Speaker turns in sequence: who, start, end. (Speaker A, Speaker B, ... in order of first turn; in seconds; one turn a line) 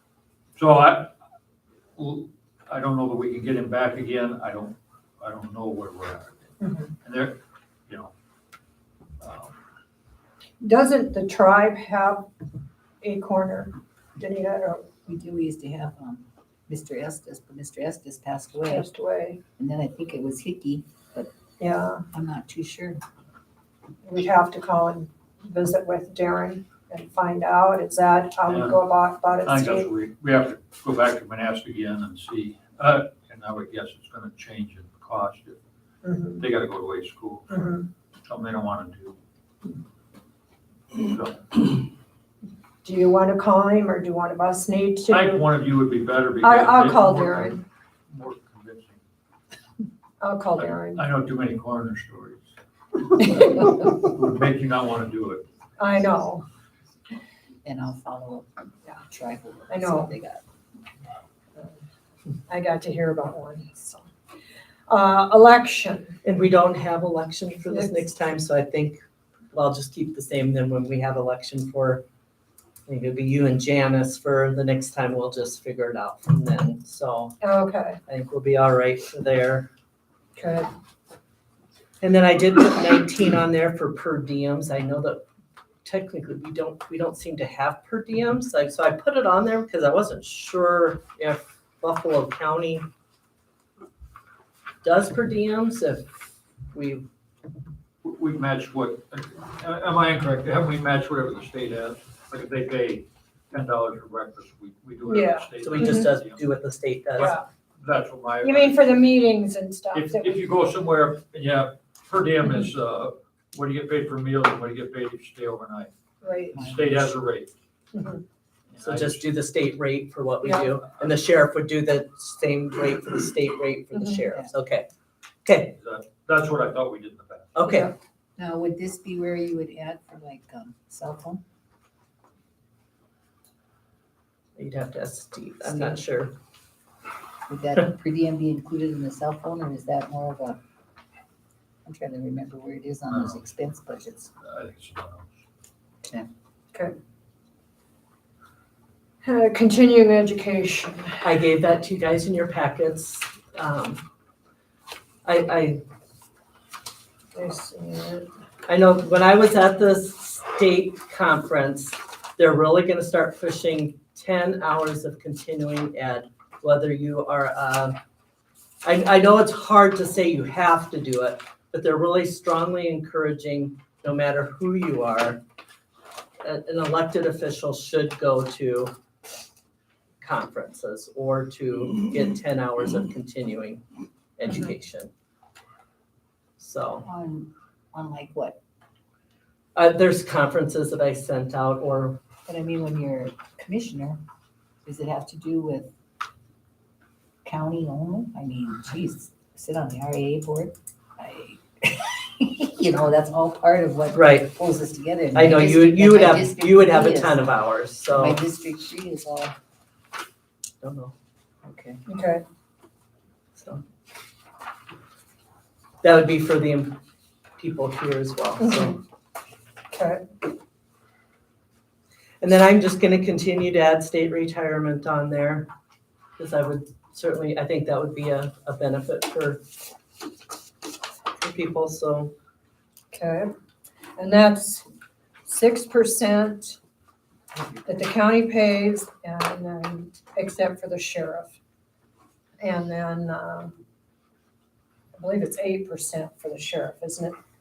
Speaker A: 0.6-1.1
Speaker A: 1.9-6.5
Speaker B: 6.6-6.9
Speaker A: 7.0-8.1
Speaker A: 9.2-9.6
Speaker B: 10.6-12.3
Speaker B: 13.0-14.9
Speaker C: 15.1-18.9
Speaker B: 18.6-19.4
Speaker C: 19.6-21.3
Speaker B: 21.6-22.0
Speaker C: 22.1-23.0
Speaker B: 24.0-29.9
Speaker A: 28.5-28.8
Speaker A: 29.4-35.6
Speaker B: 36.0-36.4
Speaker A: 36.4-39.2
Speaker B: 37.5-37.8
Speaker A: 40.9-41.6
Speaker B: 42.8-45.4
Speaker A: 45.1-49.0
Speaker B: 46.4-47.6
Speaker B: 50.2-51.0
Speaker A: 50.6-52.5
Speaker A: 53.2-55.4
Speaker B: 53.3-53.7
Speaker B: 55.8-56.4
Speaker C: 57.6-60.4
Speaker B: 59.7-60.1
Speaker B: 62.5-64.1
Speaker B: 64.9-66.2
Speaker D: 66.2-69.0
Speaker B: 67.7-68.0
Speaker D: 69.5-72.0
Speaker D: 72.9-77.3
Speaker B: 77.4-78.0
Speaker D: 78.1-79.7
Speaker B: 80.4-80.7
Speaker D: 82.0-85.2
Speaker D: 85.8-92.8
Speaker D: 94.8-96.1
Speaker D: 96.7-97.0
Speaker A: 98.0-106.4
Speaker B: 105.0-106.1
Speaker D: 105.6-107.3
Speaker A: 107.2-108.8
Speaker B: 107.2-107.4
Speaker B: 108.4-110.5
Speaker A: 109.9-115.9
Speaker B: 116.2-116.5
Speaker C: 116.5-117.0
Speaker A: 116.5-117.5
Speaker B: 117.9-118.2
Speaker A: 118.7-119.2
Speaker D: 118.8-124.9
Speaker B: 120.4-120.7
Speaker B: 123.9-124.2
Speaker D: 125.4-125.7
Speaker A: 125.7-127.6
Speaker D: 127.5-127.9
Speaker B: 127.6-127.9
Speaker C: 128.4-131.4
Speaker D: 134.6-136.3
Speaker C: 135.6-136.0
Speaker C: 137.5-140.6
Speaker C: 141.8-144.3
Speaker A: 143.1-143.4
Speaker A: 144.4-145.3
Speaker C: 146.0-146.3
Speaker B: 149.2-151.3
Speaker D: 151.2-154.0
Speaker D: 155.2-155.8
Speaker B: 157.3-158.3
Speaker D: 158.7-168.0
Speaker D: 168.8-175.4
Speaker D: 176.4-178.9
Speaker D: 180.2-183.8
Speaker D: 184.4-185.1
Speaker D: 186.6-187.0
Speaker C: 187.0-188.6
Speaker D: 189.7-192.2
Speaker C: 192.5-194.2
Speaker C: 194.8-195.9
Speaker C: 197.4-207.5
Speaker D: 204.1-204.5
Speaker D: 205.3-208.4
Speaker C: 208.1-209.5
Speaker D: 210.8-211.1
Speaker C: 211.6-212.0
Speaker B: 212.1-212.4
Speaker D: 213.5-213.8
Speaker D: 216.0-217.0
Speaker D: 217.6-219.0
Speaker B: 218.6-219.0
Speaker B: 219.9-220.2
Speaker D: 222.4-225.7
Speaker D: 226.4-229.6
Speaker D: 231.4-232.3
Speaker B: 233.1-233.5
Speaker B: 234.2-234.8
Speaker B: 235.4-236.8
Speaker B: 237.8-241.5
Speaker B: 242.6-243.7
Speaker B: 245.2-247.3